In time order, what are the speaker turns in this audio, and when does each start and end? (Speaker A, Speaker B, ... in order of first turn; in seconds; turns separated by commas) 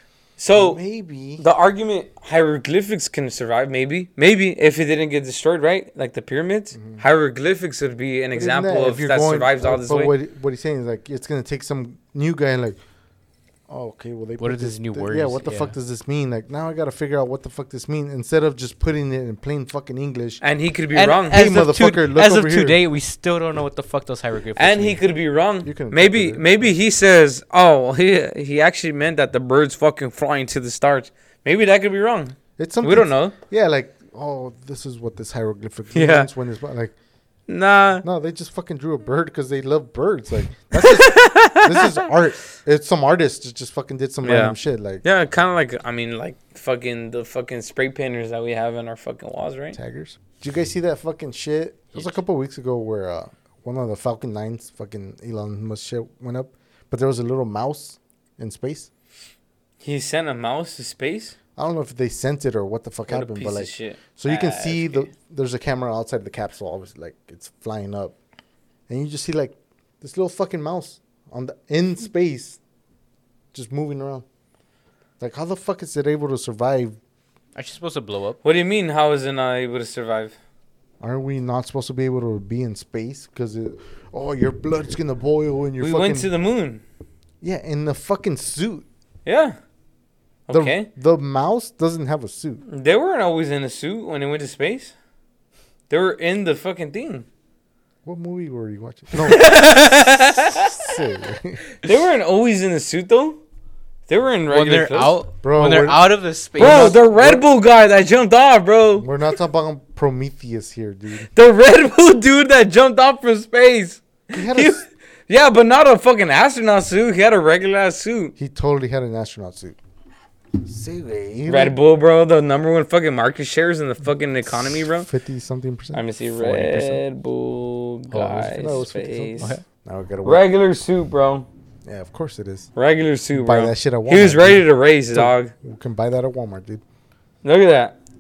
Speaker A: 0.4-10.1, Speaker B: 0.6-1.4, Speaker B: 6.7-7.0, Speaker B: 8.3-12.8, Speaker B: 13.7-20.4, Speaker C: 14.4-15.7, Speaker A: 20.4-21.4, Speaker C: 20.9-25.0, Speaker B: 21.3-22.8, Speaker A: 24.6-33.3, Speaker B: 25.6-26.8, Speaker B: 32.6-37.0, Speaker A: 36.0-36.3, Speaker A: 37.5-38.0, Speaker B: 38.0-45.0, Speaker A: 40.8-41.8, Speaker A: 44.2-49.8, Speaker B: 49.7-58.9, Speaker A: 59.8-61.4, Speaker B: 61.6-68.2, Speaker A: 63.1-65.1, Speaker B: 68.9-72.6, Speaker B: 73.5-74.3, Speaker B: 75.2-77.0, Speaker C: 77.6-78.4, Speaker A: 78.4-80.4, Speaker B: 81.0-86.3, Speaker A: 85.8-86.8, Speaker B: 87.4-88.9, Speaker A: 89.2-89.6, Speaker A: 90.5-90.9, Speaker B: 90.5-92.6, Speaker A: 92.7-94.9, Speaker A: 95.9-97.2, Speaker B: 98.0-99.6, Speaker A: 99.3-100.7, Speaker B: 100.5-101.7, Speaker A: 101.8-103.4, Speaker A: 104.1-105.2, Speaker C: 104.5-107.4, Speaker B: 105.4-107.4, Speaker A: 106.6-109.1, Speaker B: 109.0-111.3, Speaker A: 111.3-118.3, Speaker B: 114.3-114.8, Speaker B: 118.4-119.8, Speaker B: 120.6-121.8, Speaker A: 121.5-125.1, Speaker B: 124.7-127.0, Speaker A: 125.9-129.5, Speaker C: 128.1-128.8, Speaker B: 128.5-130.4, Speaker A: 130.2-131.5, Speaker B: 131.8-132.7, Speaker A: 132.8-135.5, Speaker B: 133.3-136.8, Speaker A: 137.4-137.9